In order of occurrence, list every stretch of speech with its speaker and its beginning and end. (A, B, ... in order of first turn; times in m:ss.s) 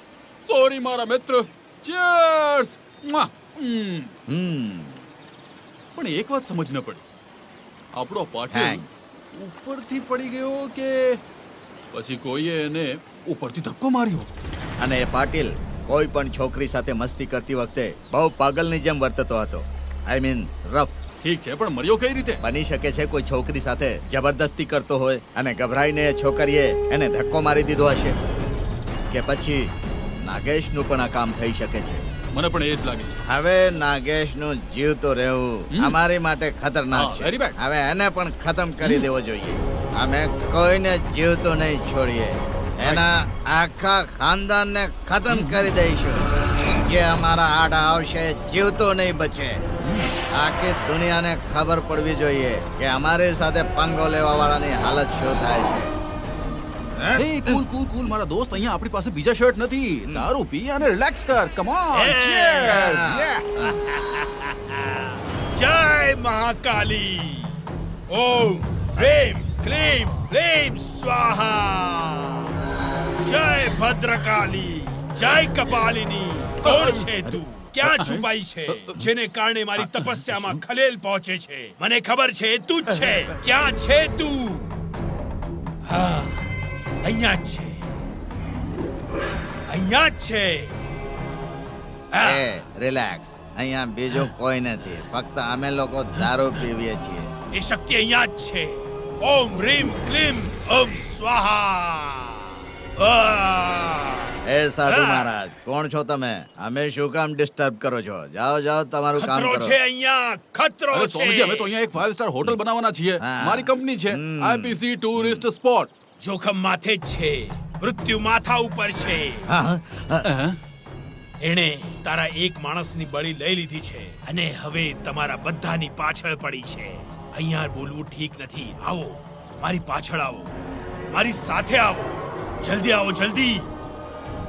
0:00.4-0:04.1 A
0:04.3-0:05.0 B
0:06.0-0:07.0 A
0:08.0-0:11.2 A
0:08.5-0:08.9 B
0:11.9-0:14.3 A
0:14.8-0:21.0 B
0:21.2-0:22.4 A
0:22.4-0:28.2 B
0:29.1-0:29.7 B
0:30.2-0:32.0 B
0:32.4-0:33.2 A
0:33.3-0:49.6 B
0:36.9-0:37.6 A
0:45.3-0:45.7 A
0:49.8-0:50.1 A
0:50.3-0:55.9 B
0:57.2-1:03.5 A
1:01.9-1:04.8 C
1:05.6-1:07.6 C
1:08.1-1:12.5 C
1:13.2-1:24.7 C
1:16.6-1:17.1 A
1:17.8-1:19.1 A
1:19.8-1:20.6 A
1:25.9-1:26.4 C
1:27.0-1:27.8 C
1:29.7-1:30.7 C
1:32.1-1:32.5 C
1:32.2-1:37.3 B
1:37.5-1:44.4 C
1:44.5-1:49.8 B
1:44.9-1:45.3 C
1:49.2-1:51.7 C
1:50.9-1:55.9 A
1:53.2-1:55.4 B
1:56.2-1:59.5 C
1:59.5-2:00.3 B
2:00.2-2:00.6 A
2:01.4-2:10.5 C
2:11.1-2:13.7 C